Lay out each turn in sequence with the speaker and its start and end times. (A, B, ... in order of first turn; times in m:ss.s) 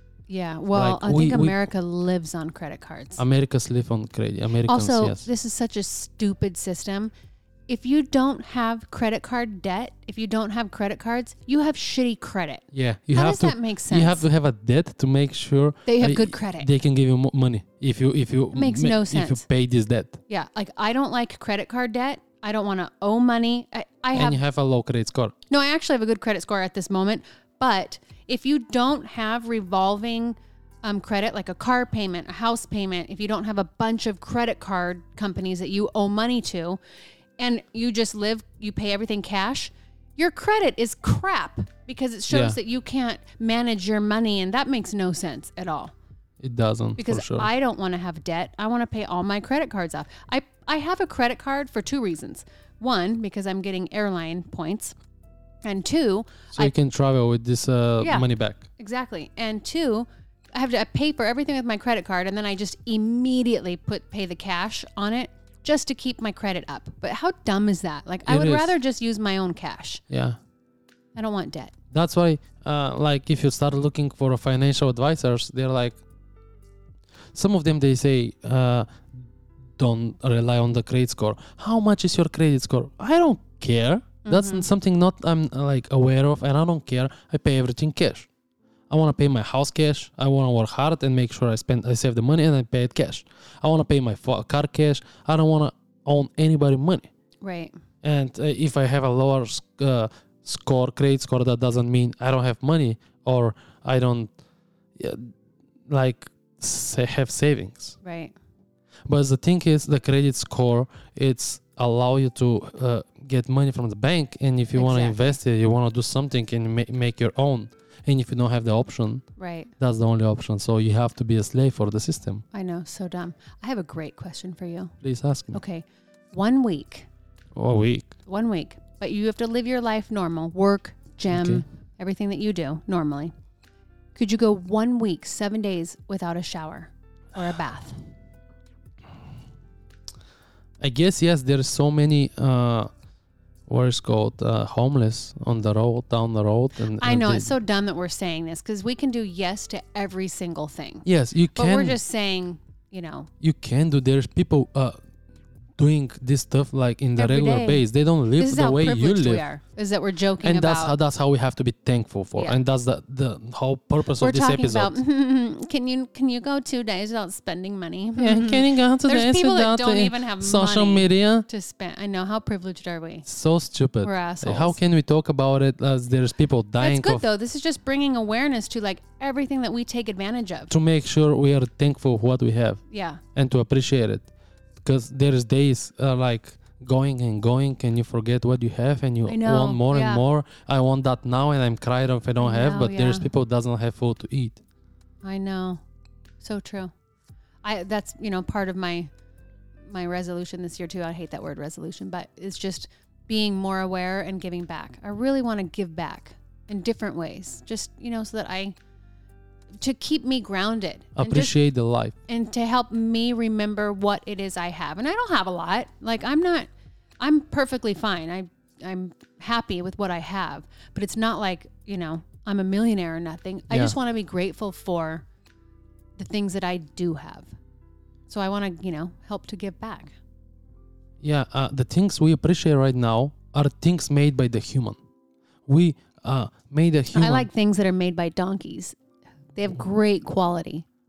0:00.3-0:03.2 A
0:00.7-0:01.6 B
0:03.2-0:05.3 B
0:04.6-0:07.1 A
0:07.7-0:14.2 A
0:12.7-0:20.2 B
0:15.9-0:16.7 A
0:18.5-0:19.4 A
0:20.3-0:24.4 A
0:24.1-0:25.4 B
0:25.5-0:36.8 A
0:37.4-0:45.9 A
0:42.3-0:42.6 B
0:46.4-0:47.5 B
0:47.0-0:55.0 A
0:55.6-0:56.7 A
0:56.5-0:58.7 B
0:58.0-0:58.3 A
0:58.8-1:10.0 A
1:08.3-1:08.7 B
1:10.1-1:10.4 B
1:11.1-1:11.8 A
1:11.9-1:16.0 B
1:17.3-1:28.3 B
1:24.2-1:24.7 A
1:28.9-1:37.1 B
1:37.4-1:37.8 A
1:38.0-1:44.3 B
1:45.0-1:45.3 B
1:45.9-1:48.0 B
1:48.0-1:48.4 A
1:49.1-1:59.2 B
1:54.7-1:55.4 A
1:59.4-1:59.7 A
1:59.8-2:02.4 B
2:02.5-2:04.9 A
2:05.0-2:05.6 B
2:05.5-2:07.1 A
2:07.6-2:08.2 B
2:08.3-2:13.3 A
2:11.3-2:11.6 B
2:14.1-2:18.0 A
2:20.8-2:22.9 B
2:23.7-2:27.5 B
2:27.0-2:33.3 A
2:31.0-2:32.0 B
2:33.4-2:35.0 B
2:35.8-2:39.4 B
2:37.2-2:37.8 A
2:38.4-2:40.9 A
2:40.4-2:45.0 B
2:44.2-2:53.3 A
2:48.2-2:51.5 B
2:53.3-2:57.3 B
2:54.0-2:54.8 A
2:56.8-3:00.7 A
3:00.7-3:02.8 B
3:02.9-3:03.2 A
3:03.3-3:04.3 B
3:04.8-3:14.6 B
3:09.3-3:10.2 A
3:12.4-3:13.3 A
3:15.2-3:15.8 A
3:16.4-3:16.9 A
3:17.6-3:19.1 A
3:19.9-3:28.8 A
3:29.8-3:31.6 A
3:31.2-3:32.2 B
3:32.3-3:36.7 A
3:37.2-3:45.2 A
3:46.2-3:47.5 A
3:48.3-3:50.2 A
3:51.2-3:55.0 B
3:55.7-3:57.5 B
3:57.1-3:59.0 A
3:59.6-4:00.8 A